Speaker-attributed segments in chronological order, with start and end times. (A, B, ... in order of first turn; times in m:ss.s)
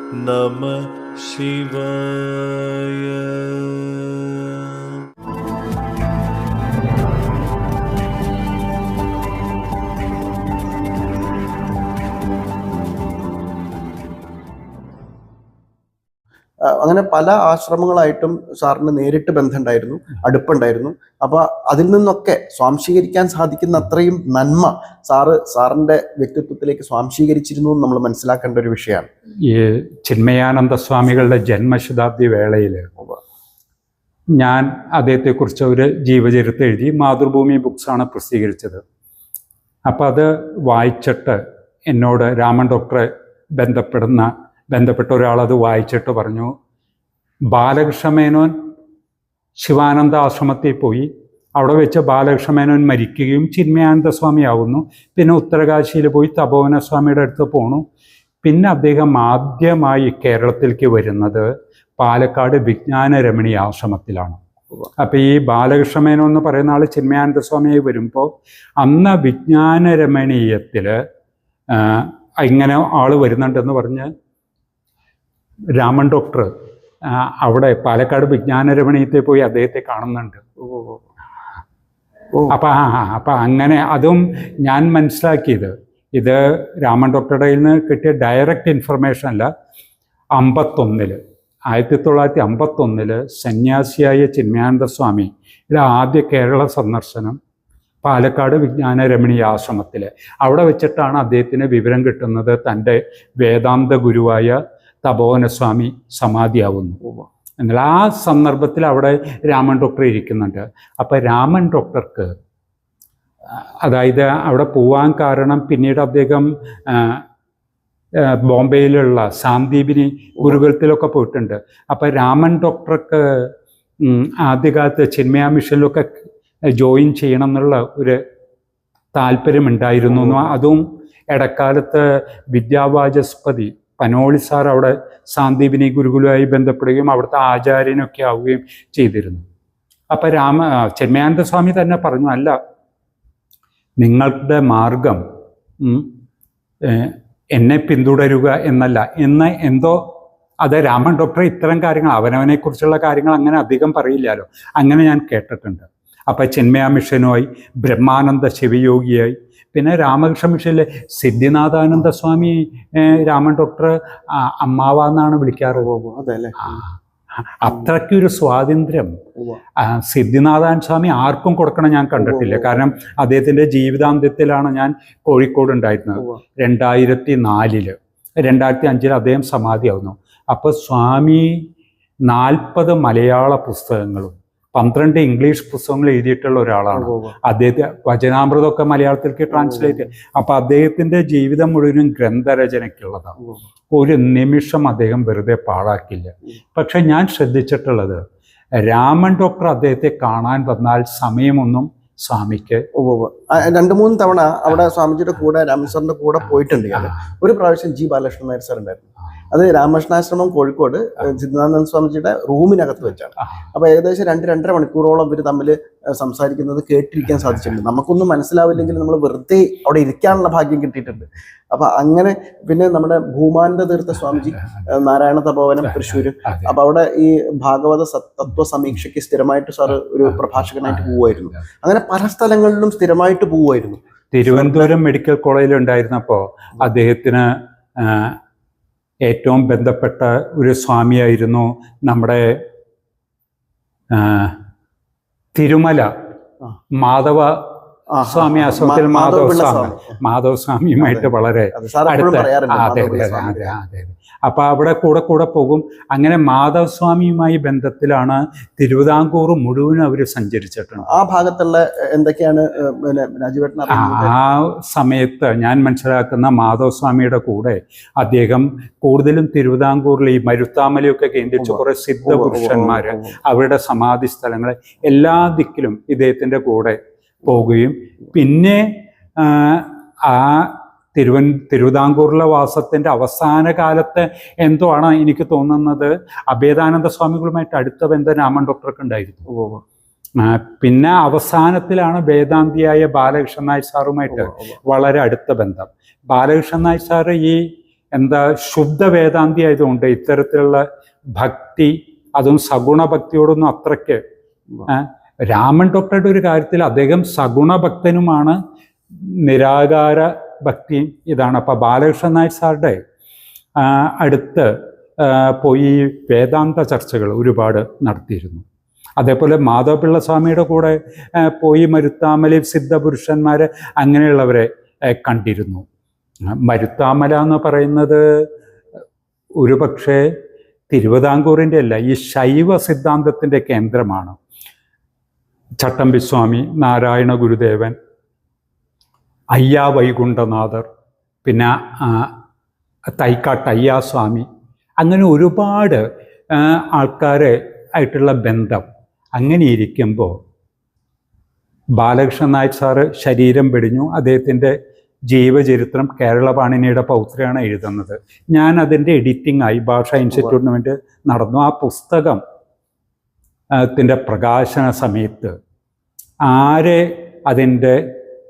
0:00.2-0:05.0 A
0:16.6-0:29.1 B
0:29.5-0:32.9 C
0:34.4-0:38.8 C
0:39.9-0:46.5 C
0:47.5-0:48.5 C
0:49.6-0:57.8 C
0:58.4-1:01.5 C
1:02.0-1:04.4 C
1:05.0-1:08.3 C
1:08.8-1:11.0 C
1:11.7-1:14.1 C
1:15.8-1:16.5 C
1:17.1-1:20.4 C
1:20.6-1:21.0 B
1:22.5-1:29.5 C
1:30.4-1:31.2 C
1:31.7-1:37.4 C
1:38.0-1:47.0 C
1:47.6-1:52.3 C
1:53.8-1:57.2 C
1:58.2-2:03.5 C
2:00.4-2:00.6 B
2:04.0-2:06.2 C
2:06.8-2:08.2 C
2:09.2-2:19.4 C
2:10.1-2:10.6 B
2:20.1-2:22.6 C
2:24.0-2:25.2 C
2:25.8-2:26.1 C
2:26.8-2:30.0 C
2:30.6-2:45.9 C
2:45.7-2:46.8 B
2:46.6-2:49.2 C
2:47.6-2:47.9 B
2:49.8-3:01.6 C
2:52.2-2:52.8 B
2:56.2-2:56.4 B
3:02.3-3:13.4 C
3:06.9-3:07.4 B
3:09.5-3:10.1 B
3:13.9-3:18.2 C
3:18.8-3:22.8 C
3:23.0-3:54.9 B
3:26.9-3:27.2 C
3:33.4-3:33.7 C
3:44.4-3:44.8 C
3:45.9-3:46.8 C
3:50.3-3:51.6 C
3:54.3-3:57.5 C
3:58.0-3:58.4 C
3:59.3-4:02.4 C
4:04.1-4:04.6 C
4:05.6-4:06.1 C
4:07.0-4:07.6 C
4:08.1-4:10.2 B
4:08.2-4:21.1 C
4:11.0-4:13.8 B
4:21.1-4:24.3 B
4:23.9-4:49.5 C
4:31.6-4:33.4 B
4:49.5-4:49.8 B
4:50.4-4:57.6 C
4:54.3-4:54.8 B
4:58.2-5:00.8 C
5:01.4-5:04.2 C
5:04.9-5:08.6 C
5:09.2-5:13.0 C
5:13.8-5:18.6 C
5:19.2-5:25.8 C
5:26.5-5:28.2 C
5:29.6-5:30.2 C
5:30.9-5:34.4 C
5:35.8-5:38.0 C
5:39.5-5:40.9 C
5:41.4-5:42.3 C
5:43.2-5:44.5 C
5:45.0-5:46.0 C
5:46.5-5:50.3 C
5:52.0-5:54.8 C
5:55.3-6:02.4 C
6:03.8-6:05.5 C
6:06.5-6:08.0 C